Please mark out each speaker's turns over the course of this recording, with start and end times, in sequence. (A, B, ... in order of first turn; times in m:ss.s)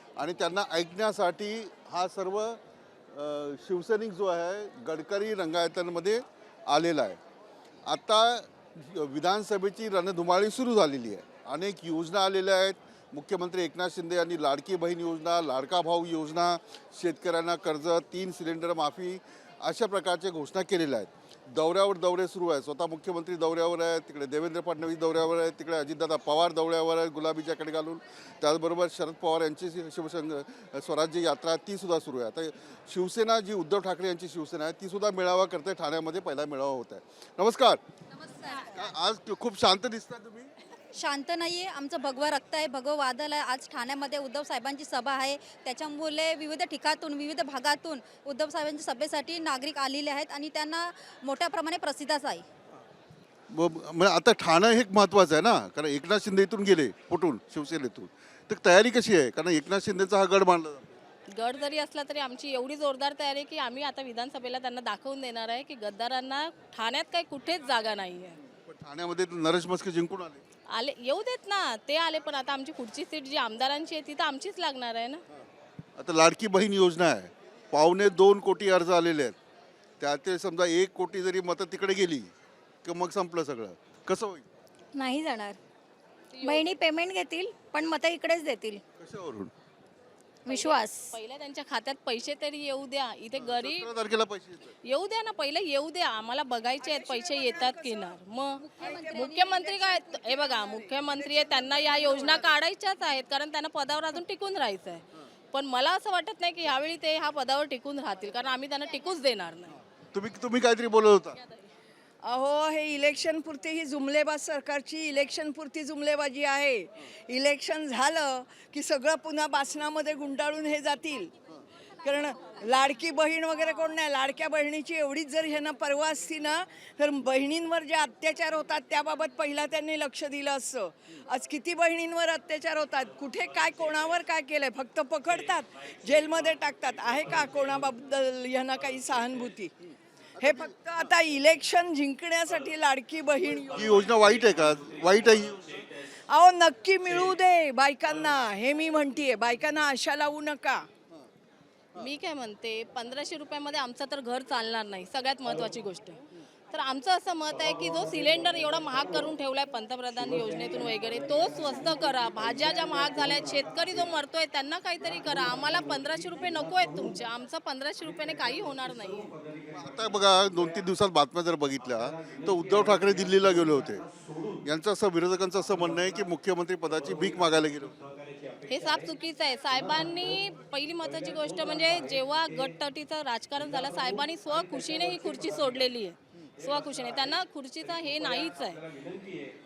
0:00.2-0:07.2 A
0:07.8-0:37.8 A
0:38.5-0:40.5 A
0:40.9-0:52.4 B
0:53.5-1:01.0 A
1:01.3-1:08.4 C
1:08.7-1:10.4 A
1:10.7-1:15.2 C
1:16.0-1:19.4 A
1:20.0-1:22.3 A
1:22.8-1:24.5 A
1:24.9-1:25.6 D
1:26.3-1:26.8 C
1:26.4-1:28.8 D
1:29.0-1:29.5 A
1:30.4-1:31.1 D
1:30.5-1:33.9 C
1:33.4-1:34.7 A
1:34.8-1:49.7 C
1:36.8-1:42.5 E
1:50.1-1:51.4 A
1:52.2-2:01.3 E
2:02.0-2:19.7 E
2:20.4-2:20.8 A
2:20.4-2:24.1 E
2:23.7-2:25.7 A
2:26.3-2:30.8 E
2:32.0-2:49.3 C
2:49.7-2:54.0 A
2:54.6-2:58.0 A
2:58.7-3:08.8 C